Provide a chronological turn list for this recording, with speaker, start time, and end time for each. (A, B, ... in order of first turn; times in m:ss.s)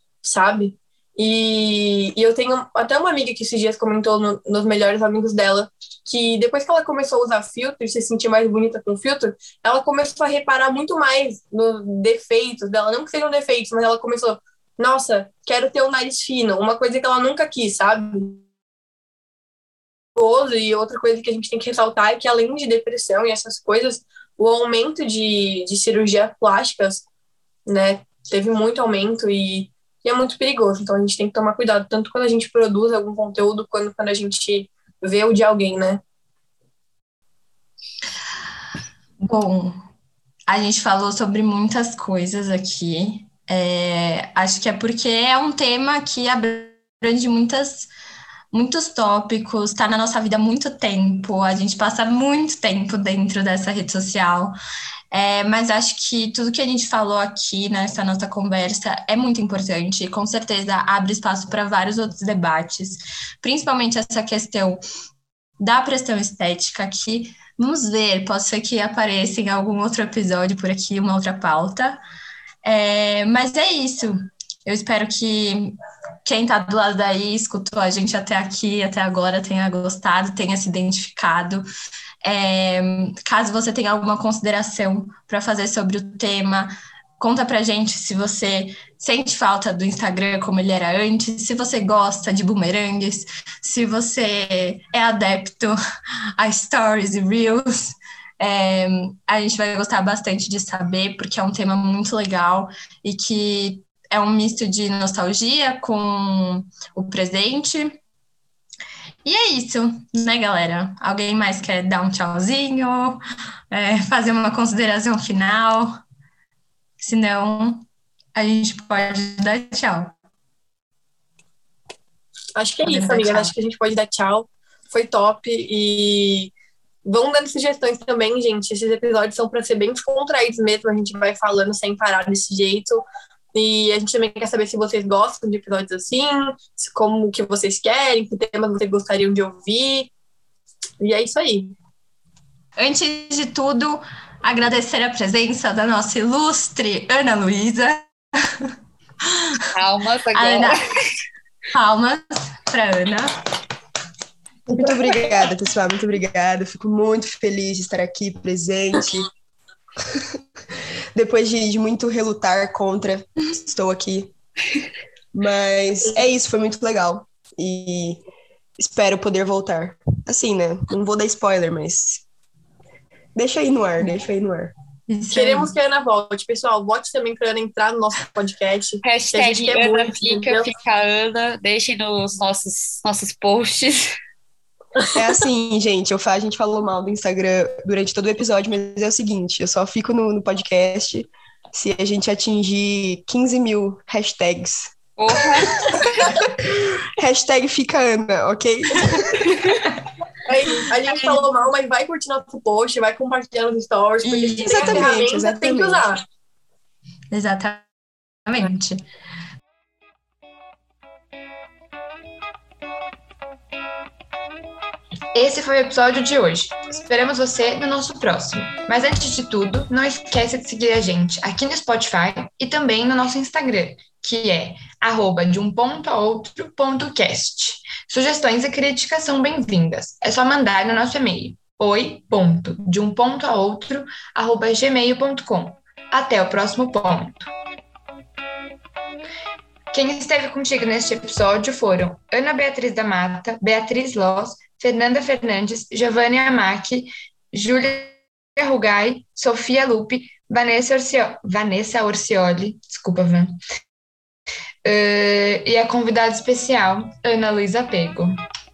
0:00.2-0:18.4 A
0:20.1-0:27.0 A
0:27.7-0:36.0 A
0:39.2-0:39.7 B
0:40.5-0:47.9 B
0:48.5-0:54.5 B
0:55.1-1:04.8 B
1:05.6-1:12.0 B
1:12.6-1:21.6 B
1:22.2-1:35.8 B
1:36.4-1:48.0 B
1:49.2-1:53.2 B
1:53.7-1:56.0 B
1:57.0-2:00.1 B
2:02.6-2:06.5 A
2:02.8-2:03.5 B
2:07.0-2:20.1 A
2:21.0-2:21.7 A
2:22.8-2:28.7 B
2:29.7-2:31.0 C
2:30.3-2:30.8 B
2:31.7-2:33.4 B
2:34.7-2:39.3 D
2:41.1-2:44.3 D
2:45.3-2:48.2 D
2:48.8-2:52.2 D
2:53.3-2:54.7 D
2:55.1-2:55.7 B
2:55.3-3:00.7 A
2:59.0-3:04.1 C
3:05.1-3:15.0 D
3:15.2-3:15.8 C
3:17.2-3:19.4 D
3:19.1-3:19.7 B
3:20.5-3:26.2 A
3:21.1-3:21.5 B
3:24.2-3:25.1 B
3:24.6-3:26.0 D
3:27.3-3:27.8 B
3:28.4-3:29.0 B
3:35.3-3:57.5 E
3:59.9-4:13.6 E
4:14.8-4:18.4 E